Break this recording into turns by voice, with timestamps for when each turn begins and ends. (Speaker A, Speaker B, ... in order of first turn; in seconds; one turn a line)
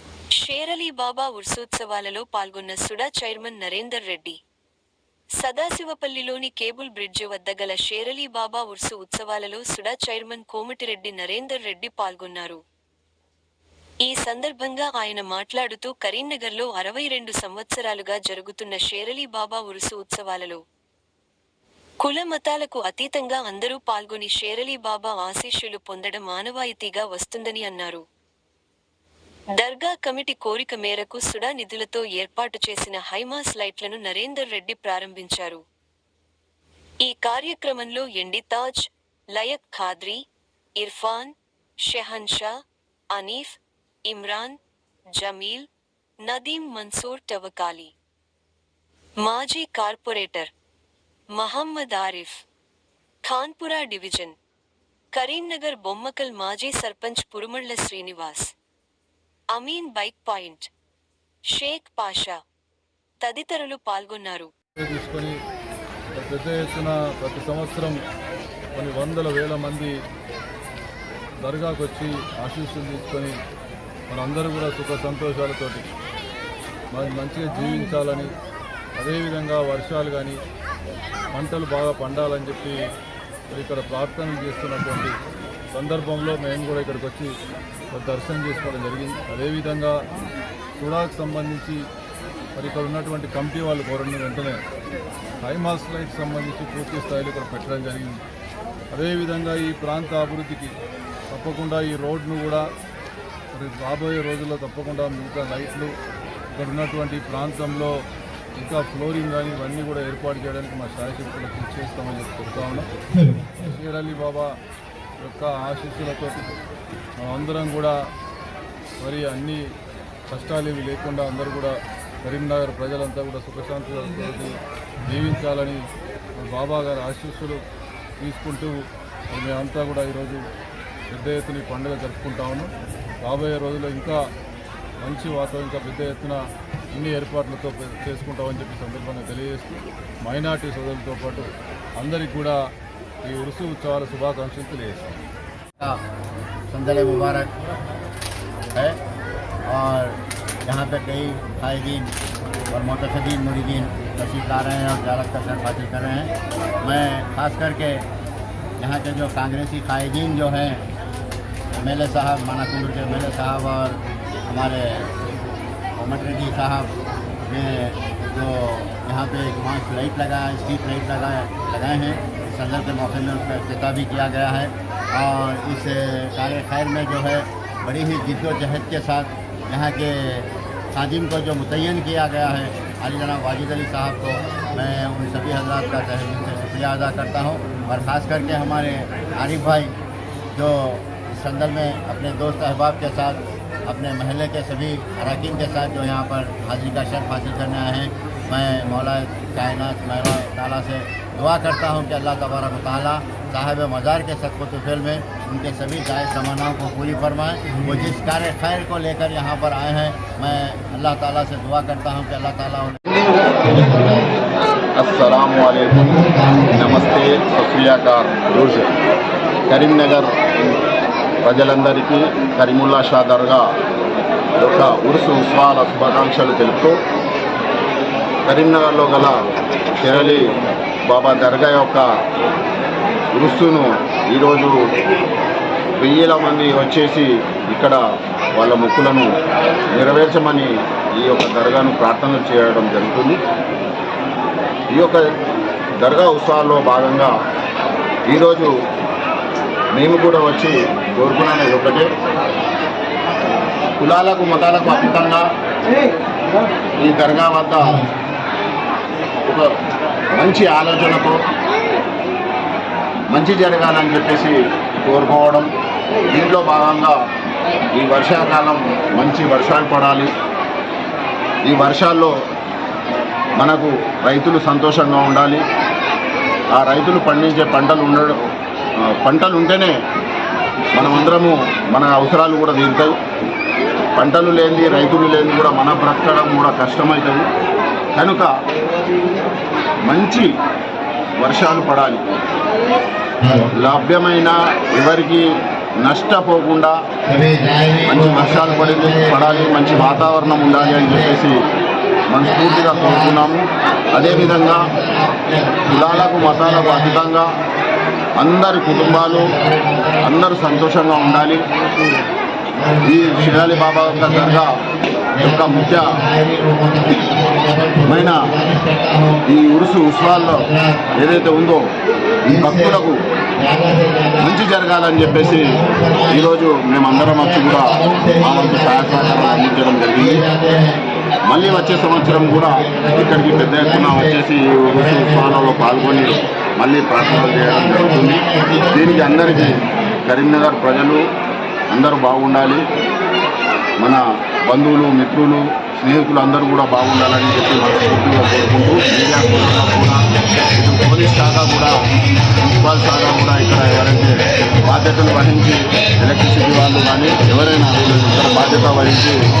Speaker A: 0.4-4.4
Speaker A: 5.4-12.6
Speaker A: 14.1-20.6
Speaker A: 22.0-28.0
Speaker A: 29.6-35.6
Speaker A: 37.0-40.2
Speaker A: 40.8-41.3
Speaker A: 41.9-42.5
Speaker A: 43.1-44.6
Speaker A: 45.1-45.7
Speaker A: 46.2-47.9
Speaker A: 49.2-50.5
Speaker A: 51.4-52.4
Speaker A: 53.2-54.4
Speaker A: 55.1-58.5
Speaker A: 59.5-60.7
Speaker A: 61.5-62.4
Speaker A: 63.2-64.5
Speaker B: 64.8-65.3
Speaker B: 66.2-68.0
Speaker B: 68.8-69.9
Speaker B: 71.4-73.3
Speaker B: 74.1-75.9
Speaker B: 76.9-78.3
Speaker B: 79.0-80.4
Speaker B: 81.3-82.8
Speaker B: 83.5-85.2
Speaker B: 85.7-87.3
Speaker B: 87.9-90.0
Speaker B: 90.8-91.8
Speaker B: 92.6-94.6
Speaker B: 95.4-98.2
Speaker B: 98.9-100.7
Speaker B: 101.3-102.7
Speaker B: 103.5-105.9
Speaker B: 106.5-108.0
Speaker B: 108.6-112.9
Speaker B: 113.5-114.5
Speaker B: 115.2-116.5
Speaker B: 117.2-118.0
Speaker B: 119.0-119.7
Speaker B: 120.3-125.8
Speaker B: 126.4-127.6
Speaker B: 128.2-130.4
Speaker B: 131.1-132.7
Speaker B: 133.2-134.2
Speaker B: 135.0-136.4
Speaker B: 136.9-142.6
Speaker B: 143.2-145.2
Speaker C: 146.7-147.5
Speaker C: 148.7-149.0
Speaker C: 149.7-152.1
Speaker C: 152.7-156.3
Speaker C: 156.8-158.1
Speaker C: 158.8-160.8
Speaker C: 161.8-165.1
Speaker C: 166.0-166.9
Speaker C: 167.5-189.9
Speaker C: 190.5-214.3
Speaker D: 214.9-216.2
Speaker C: 215.9-217.0
Speaker D: 216.7-218.9
Speaker D: 219.7-220.4
Speaker D: 221.4-223.7
Speaker D: 224.6-227.0
Speaker D: 228.4-229.3
Speaker D: 230.0-230.5
Speaker D: 231.1-232.0
Speaker D: 233.3-234.7
Speaker D: 236.0-238.0
Speaker D: 238.6-239.3
Speaker D: 239.9-243.4
Speaker D: 244.9-245.2
Speaker D: 246.0-247.3
Speaker D: 248.3-248.7
Speaker D: 249.9-252.1
Speaker D: 254.0-255.4
Speaker D: 257.0-258.0
Speaker D: 260.3-261.4
Speaker D: 263.3-265.7
Speaker D: 266.3-267.1
Speaker D: 267.9-270.3
Speaker D: 271.6-272.3
Speaker D: 273.6-275.6
Speaker D: 276.7-278.4
Speaker D: 279.1-279.9
Speaker D: 280.9-283.2
Speaker D: 284.1-287.5
Speaker D: 288.1-288.5
Speaker D: 290.1-290.5
Speaker D: 291.4-292.3
Speaker C: 293.4-293.7
Speaker D: 293.8-295.5
Speaker D: 296.0-296.9
Speaker C: 297.3-301.4
Speaker D: 298.1-301.6
Speaker D: 302.3-304.9
Speaker C: 302.4-303.4
Speaker C: 304.1-307.3
Speaker D: 305.9-307.5
Speaker D: 308.4-309.5
Speaker C: 308.8-310.4
Speaker D: 310.2-311.6
Speaker C: 311.1-311.4
Speaker C: 312.8-314.6
Speaker D: 313.0-314.7
Speaker C: 315.3-319.4
Speaker D: 315.4-316.1
Speaker D: 318.1-318.4
Speaker D: 319.5-321.9
Speaker C: 320.4-321.2
Speaker C: 322.5-323.1
Speaker D: 322.6-323.2
Speaker C: 323.6-324.5
Speaker D: 324.4-325.7
Speaker C: 325.1-326.5
Speaker D: 326.3-330.4
Speaker C: 327.1-336.4
Speaker D: 331.5-341.2
Speaker C: 337.1-339.8
Speaker D: 341.9-342.8
Speaker D: 344.0-350.2
Speaker D: 350.8-351.9
Speaker D: 352.6-359.4